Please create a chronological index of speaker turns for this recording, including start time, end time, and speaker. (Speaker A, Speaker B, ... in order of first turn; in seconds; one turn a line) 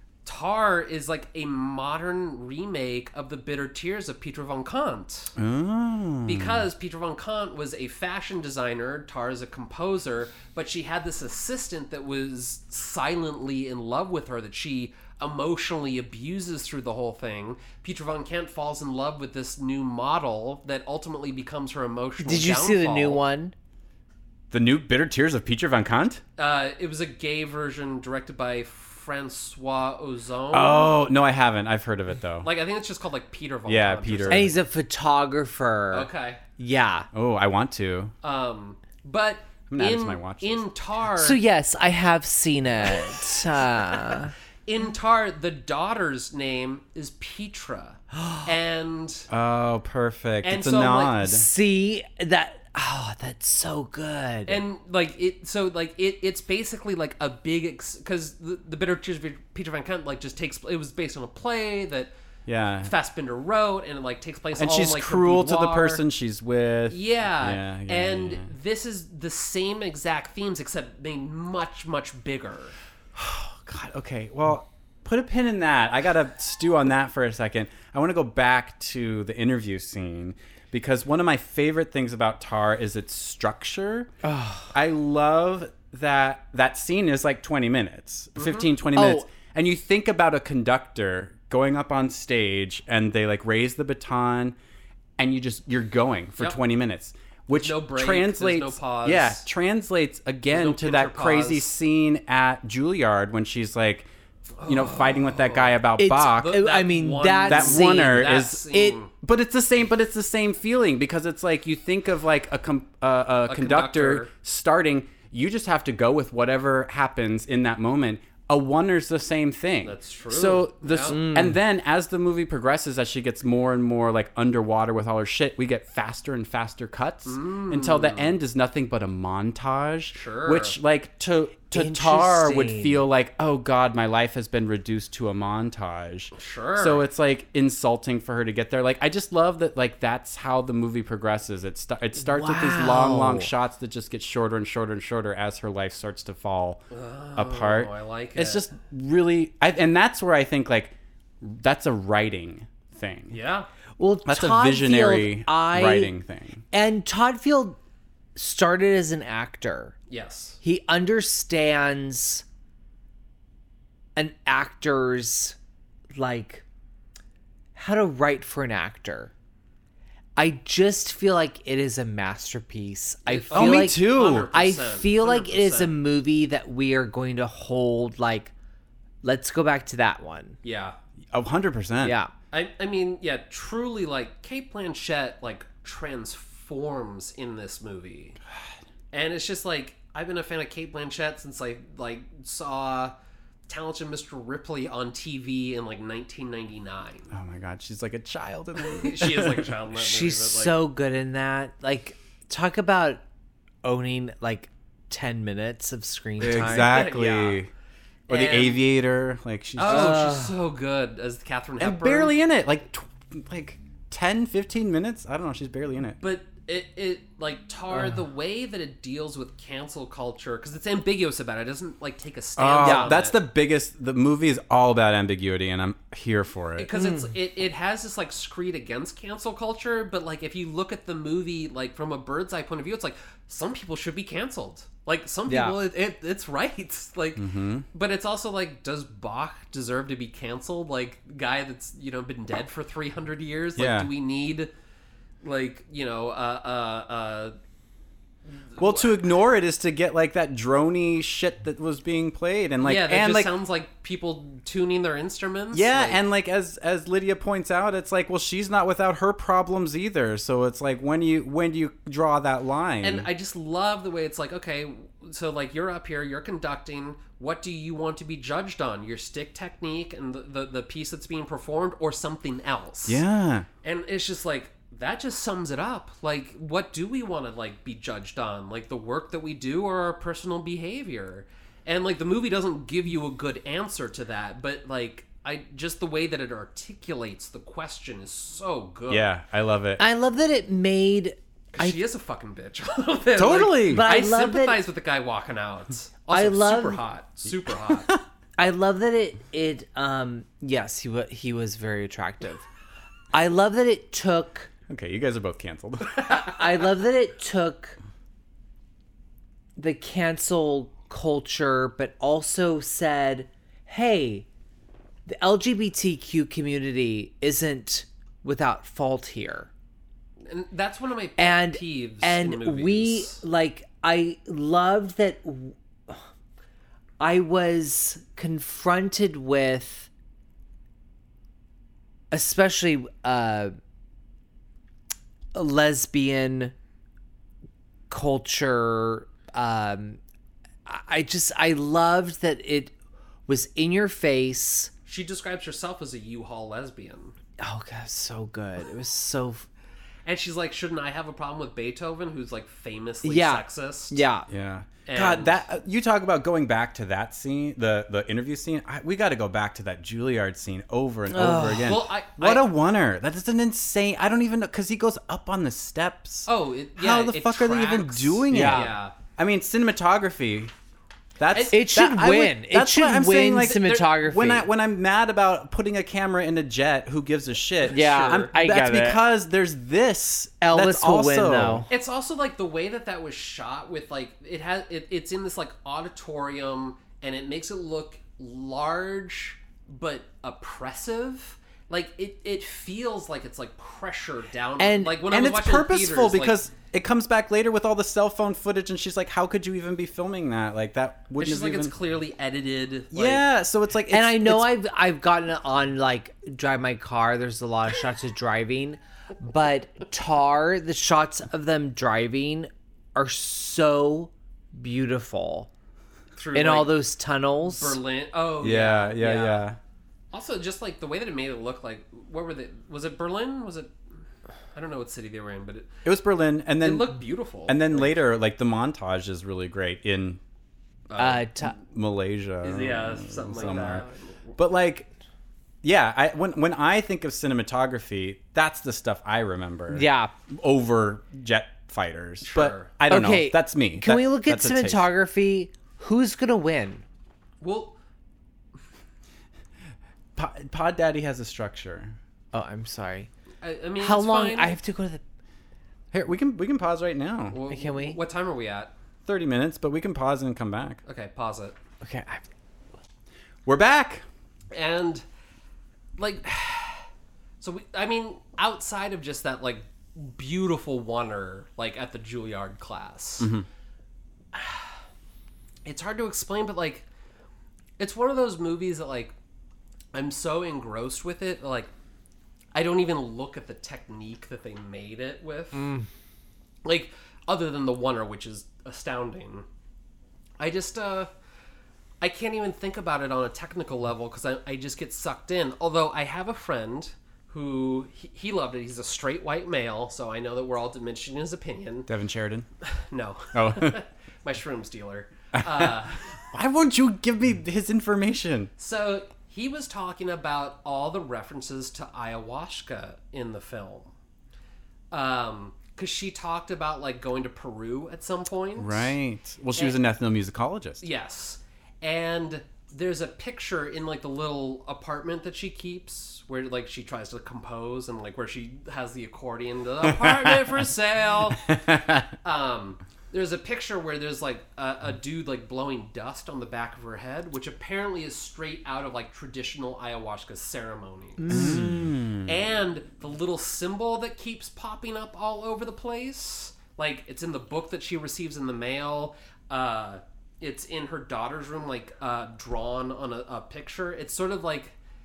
Speaker A: 0.2-5.3
Speaker B: 5.3-6.7
Speaker A: 6.2-23.2
Speaker C: 22.2-23.5
Speaker B: 24.5-26.2
Speaker A: 26.4-30.9
Speaker B: 30.5-32.5
Speaker A: 32.4-34.5
Speaker B: 33.6-34.5
Speaker C: 34.3-37.1
Speaker A: 35.9-36.4
Speaker B: 37.1-38.1
Speaker A: 38.2-41.4
Speaker B: 39.7-40.6
Speaker C: 41.2-44.3
Speaker A: 44.1-49.3
Speaker C: 48.1-48.5
Speaker B: 49.3-51.5
Speaker A: 50.4-51.2
Speaker C: 51.2-54.6
Speaker A: 54.5-62.1
Speaker B: 62.5-62.9
Speaker A: 62.8-66.0
Speaker B: 64.5-68.5
Speaker A: 66.9-72.8
Speaker B: 73.1-84.1
Speaker C: 84.2-84.7
Speaker B: 84.7-94.6
Speaker A: 88.3-88.7
Speaker C: 89.0-89.3
Speaker B: 95.2-104.1
Speaker A: 97.5-99.4
Speaker A: 100.5-101.7
Speaker A: 104.6-109.1
Speaker B: 104.6-106.6
Speaker C: 106.0-109.0
Speaker B: 107.5-146.8
Speaker A: 113.5-114.3
Speaker A: 119.8-121.2
Speaker C: 121.1-121.6
Speaker A: 127.2-128.3
Speaker A: 130.1-130.8
Speaker C: 131.7-133.0
Speaker A: 136.3-137.0
Speaker C: 142.2-143.5
Speaker A: 146.9-148.7
Speaker B: 147.3-153.3
Speaker A: 153.3-153.7
Speaker C: 154.0-156.1
Speaker B: 154.2-156.6
Speaker C: 156.7-157.8
Speaker C: 158.3-159.9
Speaker A: 160.1-160.6
Speaker C: 160.6-162.4
Speaker C: 164.2-165.6
Speaker C: 166.1-166.7
Speaker C: 167.8-169.3
Speaker C: 170.4-178.5
Speaker A: 173.3-176.0
Speaker B: 173.5-174.5
Speaker C: 179.2-180.6
Speaker A: 180.6-181.0
Speaker B: 181.3-182.2
Speaker C: 182.0-182.3
Speaker A: 182.5-188.4
Speaker A: 189.1-193.1
Speaker A: 193.7-197.3
Speaker B: 197.3-199.8
Speaker A: 198.9-200.8
Speaker C: 199.9-203.2
Speaker C: 203.8-207.1
Speaker B: 206.4-207.7
Speaker A: 206.4-207.6
Speaker A: 208.3-208.8
Speaker B: 208.3-210.3
Speaker A: 209.8-212.3
Speaker C: 209.8-210.5
Speaker B: 211.8-216.2
Speaker A: 216.2-223.4
Speaker B: 222.6-226.9
Speaker C: 222.8-223.1
Speaker A: 226.8-244.7
Speaker C: 226.9-227.3
Speaker C: 235.5-235.8
Speaker B: 237.4-237.8
Speaker B: 243.8-244.1
Speaker A: 245.4-247.6
Speaker A: 248.7-249.2
Speaker B: 248.8-253.6
Speaker A: 252.8-256.2
Speaker B: 255.7-263.3
Speaker A: 263.0-273.2
Speaker B: 273.1-273.7
Speaker A: 273.8-289.3
Speaker B: 289.1-290.0
Speaker C: 290.0-292.0
Speaker A: 291.7-298.1
Speaker B: 293.4-294.1
Speaker C: 293.9-294.8
Speaker C: 296.3-297.0
Speaker C: 298.6-302.6
Speaker C: 303.3-304.7
Speaker B: 304.9-306.5
Speaker C: 306.4-308.0
Speaker C: 309.8-314.5
Speaker C: 315.2-319.7
Speaker A: 320.4-323.4
Speaker C: 321.4-326.2
Speaker C: 327.2-330.1
Speaker C: 332.3-333.7
Speaker C: 335.5-336.7
Speaker C: 338.1-340.2
Speaker C: 340.9-342.9
Speaker C: 343.5-344.9
Speaker A: 345.1-347.4
Speaker C: 347.6-349.7
Speaker A: 350.2-354.2
Speaker C: 353.2-354.5
Speaker B: 354.5-370.7
Speaker A: 355.1-355.6
Speaker C: 361.3-362.0
Speaker A: 361.8-362.7
Speaker A: 366.5-369.1
Speaker C: 368.5-368.9
Speaker B: 371.4-381.8
Speaker A: 371.5-371.8
Speaker C: 371.7-374.7
Speaker A: 377.8-378.5
Speaker C: 377.9-379.2
Speaker C: 380.7-381.9
Speaker A: 381.9-396.6
Speaker C: 394.8-395.2
Speaker B: 395.2-401.9
Speaker A: 401.4-403.4
Speaker B: 403.1-404.7
Speaker C: 404.1-415.7
Speaker A: 416.3-417.0
Speaker C: 416.5-418.0
Speaker A: 417.6-419.6
Speaker B: 418.6-419.8
Speaker A: 420.3-423.9
Speaker A: 424.7-425.9
Speaker B: 426.0-430.4
Speaker A: 426.8-428.2
Speaker A: 431.1-431.4
Speaker C: 431.2-431.8
Speaker B: 431.7-434.0
Speaker A: 432.6-434.5
Speaker B: 434.6-435.1
Speaker B: 435.8-445.1
Speaker C: 439.9-440.3
Speaker A: 442.4-442.9
Speaker C: 443.1-447.0
Speaker A: 447.6-448.0
Speaker B: 450.4-452.1
Speaker C: 452.5-453.3
Speaker A: 453.6-454.8
Speaker C: 454.0-455.2
Speaker B: 456.1-457.6
Speaker A: 457.5-458.9
Speaker C: 457.7-458.2
Speaker B: 459.2-461.0
Speaker A: 461.1-461.8
Speaker C: 462.0-462.4
Speaker B: 463.6-464.2
Speaker A: 464.7-465.2
Speaker A: 466.2-467.1
Speaker A: 467.6-473.5
Speaker B: 473.4-473.6
Speaker A: 474.5-474.9
Speaker A: 475.8-477.1
Speaker A: 478.0-479.3
Speaker A: 480.1-481.9
Speaker A: 482.7-485.9
Speaker C: 485.7-486.1
Speaker A: 486.8-489.6
Speaker A: 490.6-491.3
Speaker A: 492.2-502.1
Speaker B: 502.1-502.7
Speaker A: 502.8-506.2
Speaker B: 503.5-504.0
Speaker B: 505.5-505.9
Speaker B: 506.5-508.7
Speaker A: 508.8-514.1
Speaker A: 515.1-519.1
Speaker B: 518.8-521.0
Speaker A: 521.0-531.7
Speaker B: 530.2-530.7
Speaker B: 531.5-532.2
Speaker A: 532.4-541.5
Speaker C: 541.4-542.1
Speaker B: 541.5-542.6
Speaker A: 542.4-555.0